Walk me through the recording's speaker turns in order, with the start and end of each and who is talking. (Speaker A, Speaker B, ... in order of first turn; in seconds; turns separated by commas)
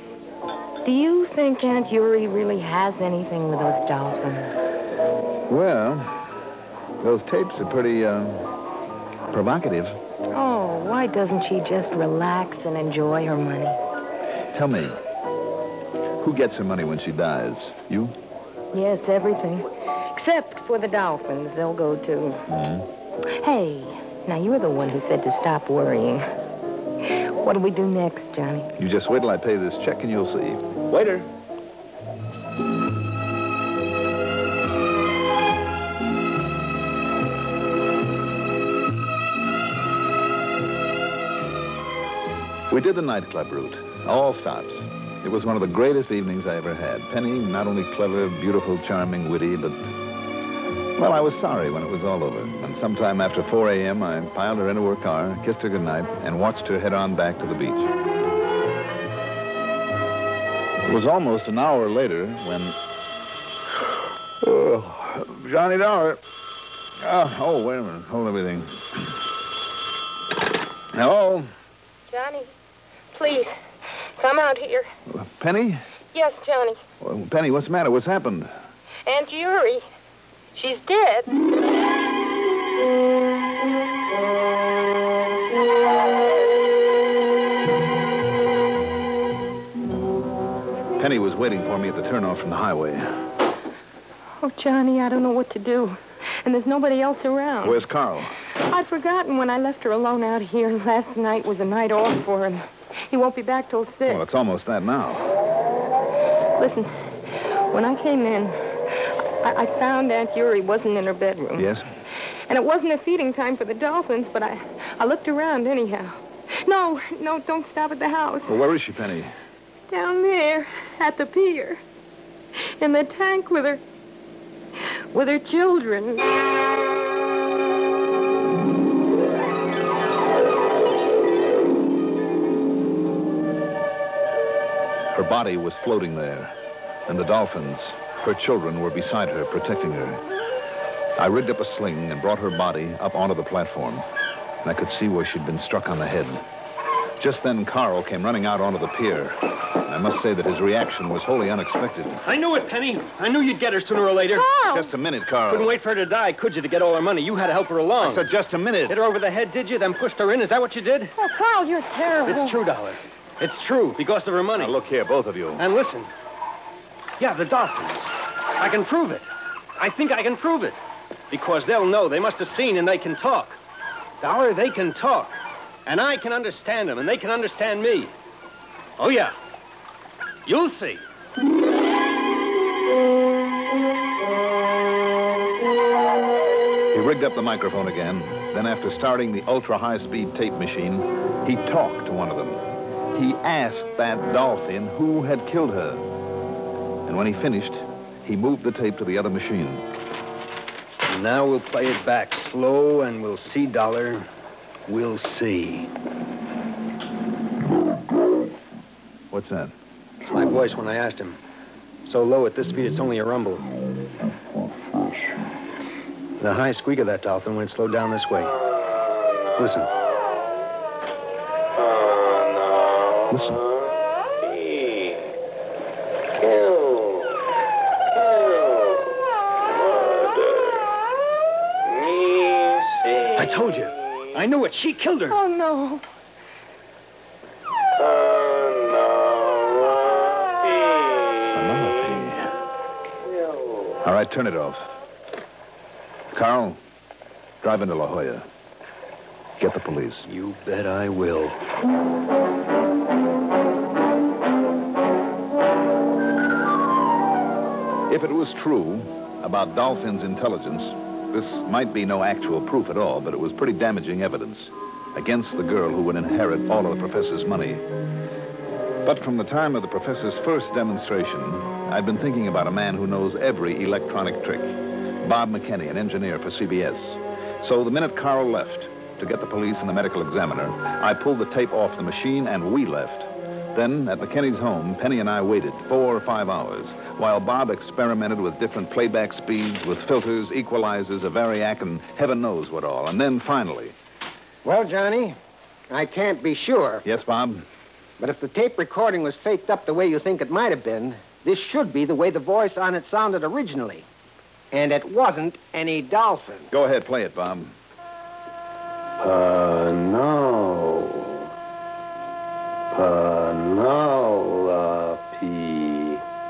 Speaker A: 0.8-4.5, Speaker B: 5.5-6.2, Speaker B: 7.0-8.5, Speaker B: 9.3-10.0, Speaker A: 10.3-13.8, Speaker B: 14.5-15.0, Speaker B: 16.2-18.1, Speaker A: 18.7-22.4, Speaker B: 22.5-22.9, Speaker A: 23.4-26.3, Speaker A: 27.0-28.7, Speaker B: 28.8-31.3, Speaker B: 42.7-49.9, Speaker B: 51.0-57.9, Speaker B: 60.8-62.8, Speaker B: 64.4-66.2, Speaker B: 67.0-69.1, Speaker B: 70.9-71.5, Speaker A: 72.1-72.5, Speaker A: 73.1-73.5, Speaker A: 74.2-74.9, Speaker B: 75.1-75.8, Speaker A: 76.1-76.8, Speaker B: 77.0-78.5, Speaker A: 79.1-79.8, Speaker A: 80.5-81.3, Speaker B: 91.0-93.2, Speaker A: 94.4-97.8, Speaker B: 97.6-98.4, Speaker A: 98.5-104.2, Speaker B: 104.1-105.3, Speaker A: 106.6-106.9, Speaker A: 107.7-111.7, Speaker B: 111.6-111.9, Speaker A: 112.5-118.6, Speaker B: 118.5-119.3, Speaker A: 119.9-121.8, Speaker A: 122.6-123.8, Speaker A: 125.1-126.3, Speaker B: 135.1-136.5, Speaker B: 137.1-140.2, Speaker B: 141.2-144.1, Speaker B: 144.6-146.4, Speaker B: 147.2-152.2, Speaker C: 152.2-154.5, Speaker A: 154.3-154.9, Speaker B: 154.6-155.8, Speaker C: 155.5-158.3, Speaker B: 158.0-159.0, Speaker C: 158.9-161.1, Speaker A: 161.1-162.6, Speaker C: 162.2-164.8, Speaker B: 164.5-165.6, Speaker C: 165.6-166.1, Speaker C: 167.2-169.2, Speaker C: 169.8-170.8, Speaker C: 171.3-173.6, Speaker C: 174.2-178.1, Speaker C: 179.0-179.3, Speaker C: 180.4-181.0, Speaker B: 186.9-192.6, Speaker B: 193.1-196.1, Speaker B: 197.1-199.9, Speaker C: 201.1-204.2, Speaker C: 204.9-205.9, Speaker B: 209.3-209.7, Speaker C: 210.2-211.4, Speaker C: 212.1-213.7, Speaker C: 216.4-218.5, Speaker C: 219.6-219.9, Speaker B: 223.3-223.6, Speaker C: 233.3-235.4, Speaker A: 235.3-236.0, Speaker B: 241.5-242.6, Speaker B: 244.0-244.8, Speaker B: 246.3-246.8, Speaker B: 247.6-248.4, Speaker B: 249.6-250.2, Speaker C: 250.2-251.6, Speaker B: 258.1-267.8, Speaker B: 269.0-293.9, Speaker D: 294.6-295.4, Speaker D: 295.9-297.1, Speaker B: 297.1-297.6, Speaker D: 298.2-304.1, Speaker D: 304.7-306.7, Speaker B: 306.7-307.7, Speaker E: 309.2-311.5, Speaker E: 312.9-316.2